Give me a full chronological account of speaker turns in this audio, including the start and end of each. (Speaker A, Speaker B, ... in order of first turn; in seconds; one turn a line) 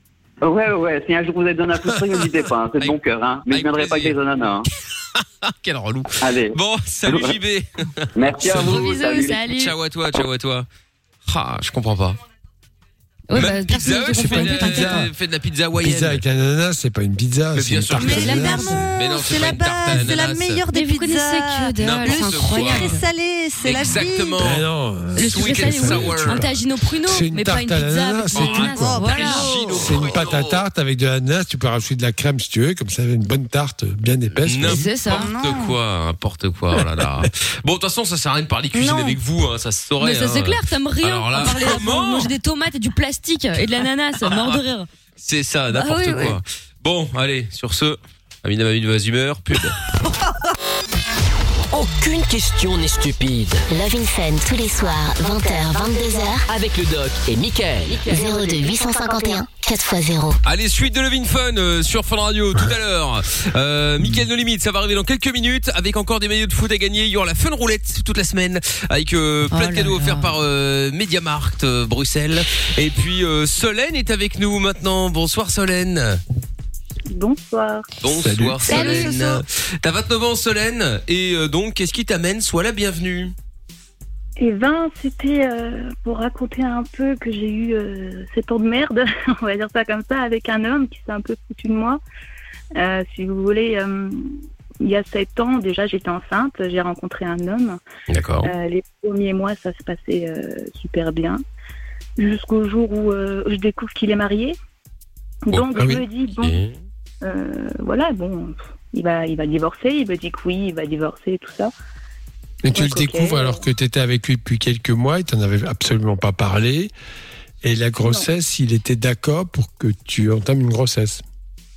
Speaker A: 0.4-4.7
Speaker B: 2.8-4.2
Speaker B: 5.2-8.9
Speaker A: 6.2-7.4
Speaker A: 8.2-9.5
Speaker C: 8.5-9.8
Speaker B: 9.5-10.7
Speaker B: 11.3-12.2
Speaker C: 13.3-15.1
Speaker B: 13.3-16.2
Speaker D: 14.1-15.1
Speaker D: 15.8-18.8
Speaker B: 17.6-20.6
Speaker E: 17.9-24.5
Speaker C: 18.0-18.9
Speaker C: 20.7-23.1
Speaker B: 21.8-23.0
Speaker B: 23.6-24.6
Speaker D: 24.4-34.9
Speaker C: 25.1-29.5
Speaker B: 25.2-26.5
Speaker B: 28.3-30.6
Speaker E: 28.7-29.9
Speaker B: 34.5-42.3
Speaker C: 34.6-35.3
Speaker E: 35.0-35.8
Speaker E: 38.7-39.2
Speaker C: 40.0-44.9
Speaker B: 44.2-44.6
Speaker B: 45.2-49.8
Speaker C: 45.7-46.4
Speaker F: 51.7-53.6
Speaker G: 53.7-56.5
Speaker F: 56.5-58.5
Speaker G: 58.0-60.4
Speaker B: 60.4-76.2
Speaker C: 69.5-70.3
Speaker H: 77.1-77.9
Speaker B: 78.0-83.3
Speaker D: 78.1-79.0
Speaker C: 78.7-79.4
Speaker H: 84.4-92.0
Speaker H: 92.8-97.8
Speaker B: 98.1-98.5
Speaker H: 98.4-101.4
Speaker H: 102.2-104.6
Speaker H: 105.5-106.6
Speaker B: 105.5-105.9
Speaker D: 105.8-106.0
Speaker B: 106.4-106.7
Speaker H: 107.2-111.7
Speaker D: 112.6-116.9
Speaker H: 112.8-113.6
Speaker D: 117.6-121.2
Speaker H: 118.0-118.3